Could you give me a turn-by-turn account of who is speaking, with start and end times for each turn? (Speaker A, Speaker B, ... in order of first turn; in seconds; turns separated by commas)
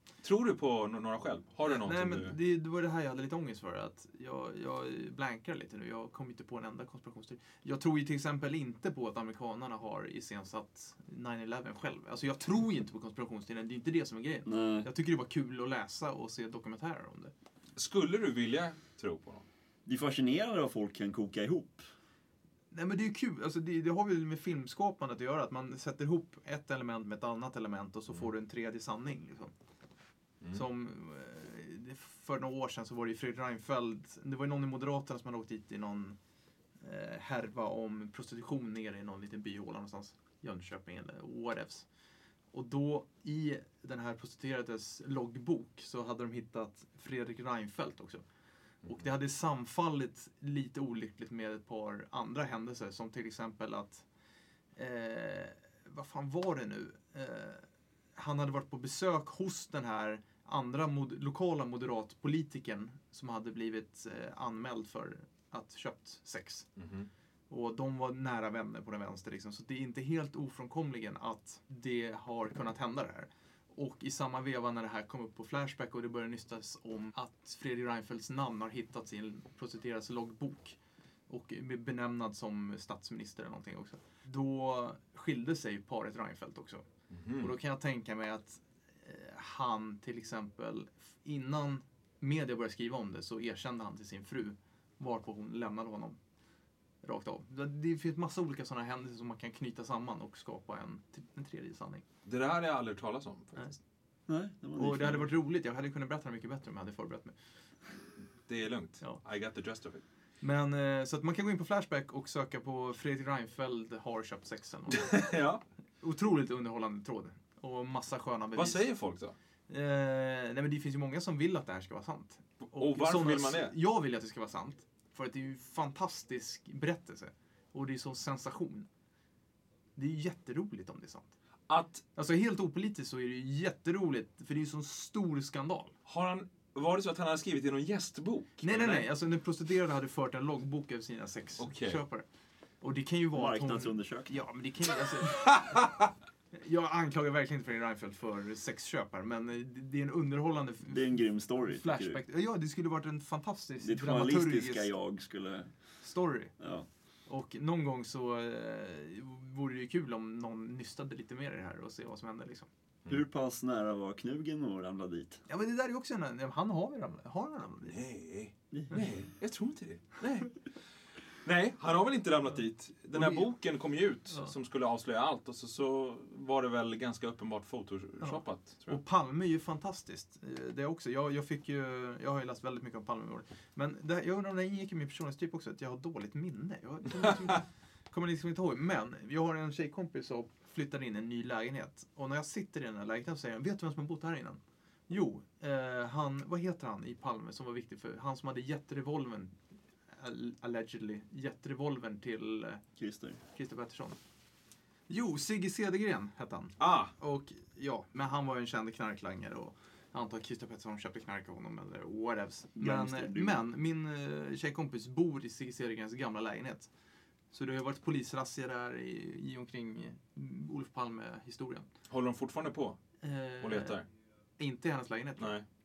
Speaker A: 0.2-2.4, Speaker B: 1.6-17.3, Speaker C: 14.4-14.9, Speaker A: 17.8-19.4, Speaker C: 19.9-21.8, Speaker B: 22.7-29.5, Speaker B: 30.5-36.2, Speaker B: 36.8-41.9, Speaker B: 42.5-48.2, Speaker B: 48.8-54.0, Speaker B: 54.8-66.7, Speaker A: 66.8-67.1, Speaker B: 67.5-80.8, Speaker B: 81.3-86.8, Speaker A: 87.1-87.5, Speaker B: 87.4-96.2, Speaker B: 97.0-102.0, Speaker A: 102.2-103.8, Speaker C: 104.3-105.3, Speaker B: 104.8-107.3, Speaker A: 108.5-110.0, Speaker B: 110.4-115.3, Speaker A: 114.9-115.6, Speaker B: 116.0-118.9, Speaker A: 118.5-119.3, Speaker B: 119.7-128.9, Speaker A: 122.7-123.8, Speaker B: 129.9-131.3, Speaker A: 131.7-132.0, Speaker B: 132.1-135.9, Speaker A: 136.1-139.1, Speaker B: 138.6-142.3, Speaker A: 141.6-142.0, Speaker B: 142.8-146.0, Speaker C: 143.3-144.3, Speaker B: 146.5-154.9, Speaker C: 150.9-152.2, Speaker C: 153.8-155.7, Speaker B: 156.0-156.5, Speaker C: 156.6-156.9, Speaker B: 157.3-162.7, Speaker C: 163.1-165.4, Speaker B: 165.5-168.0, Speaker A: 167.9-170.5, Speaker C: 168.7-169.1, Speaker A: 171.4-179.0, Speaker B: 173.1-173.5, Speaker B: 178.2-199.5, Speaker B: 200.1-202.8, Speaker C: 203.0-203.4, Speaker B: 203.5-204.2, Speaker B: 205.1-216.9, Speaker A: 206.8-207.1, Speaker C: 212.8-213.6, Speaker B: 217.5-221.9, Speaker A: 222.1-223.0, Speaker B: 223.2-224.0, Speaker A: 223.6-224.0, Speaker B: 224.6-225.6, Speaker A: 225.4-225.6